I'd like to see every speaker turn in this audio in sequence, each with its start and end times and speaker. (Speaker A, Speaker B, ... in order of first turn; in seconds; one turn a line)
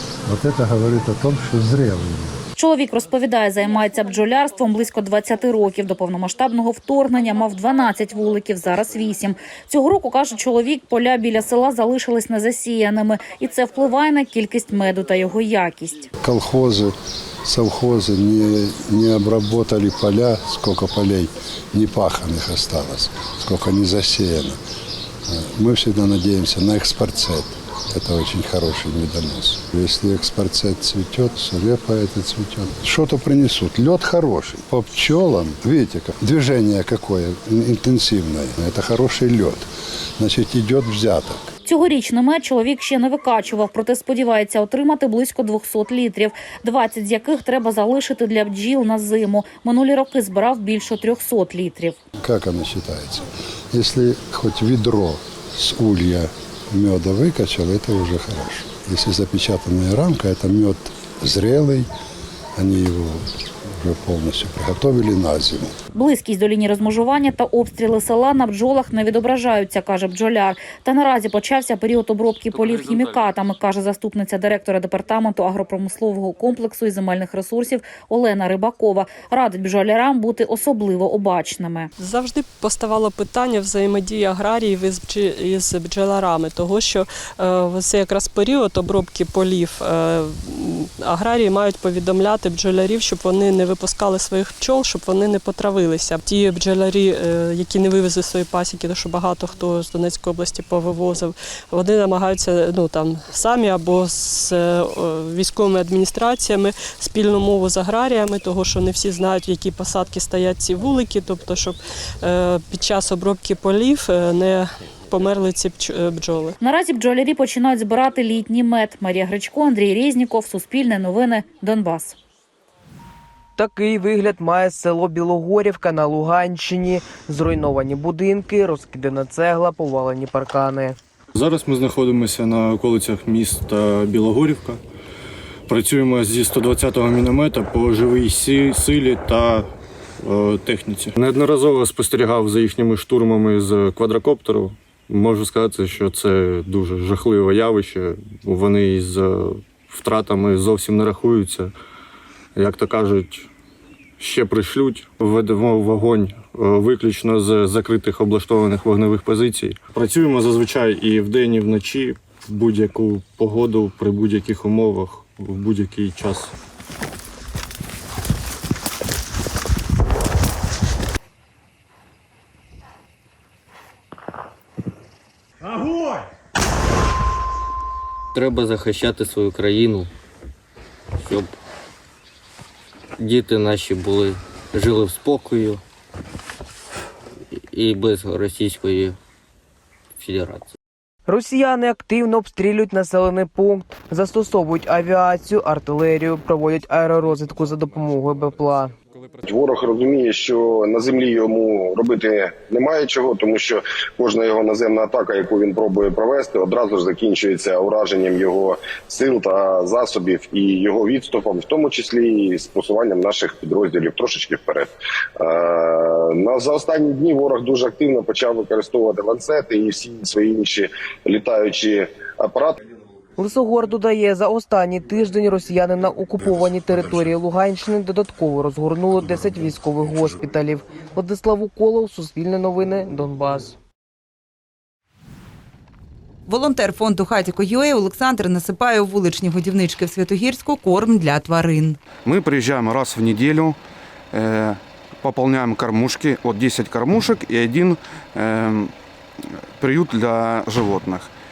Speaker A: 0.3-2.4
Speaker B: 2.6-16.1
Speaker A: 16.2-24.6
Speaker A: 25.3-41.5
Speaker B: 41.6-52.0
Speaker A: 52.2-61.9
Speaker A: 62.6-63.2
Speaker A: 63.8-65.8
Speaker B: 66.0-81.9
Speaker C: 82.0-116.6
Speaker B: 116.6-122.2
Speaker D: 123.6-131.0
Speaker E: 131.3-134.8
Speaker E: 135.7-139.7
Speaker E: 140.2-151.7
Speaker E: 152.6-153.5
Speaker E: 154.2-166.5
Speaker F: 178.3-180.1
Speaker F: 181.2-181.5
Speaker F: 183.2-185.8
Speaker F: 187.7-189.2
Speaker F: 190.2-190.7
Speaker D: 191.3-198.9
Speaker G: 199.4-222.8
Speaker D: 223.4-233.7
Speaker H: 236.5-242.0
Speaker I: 242.2-243.8
Speaker I: 244.3-248.9
Speaker I: 249.8-251.3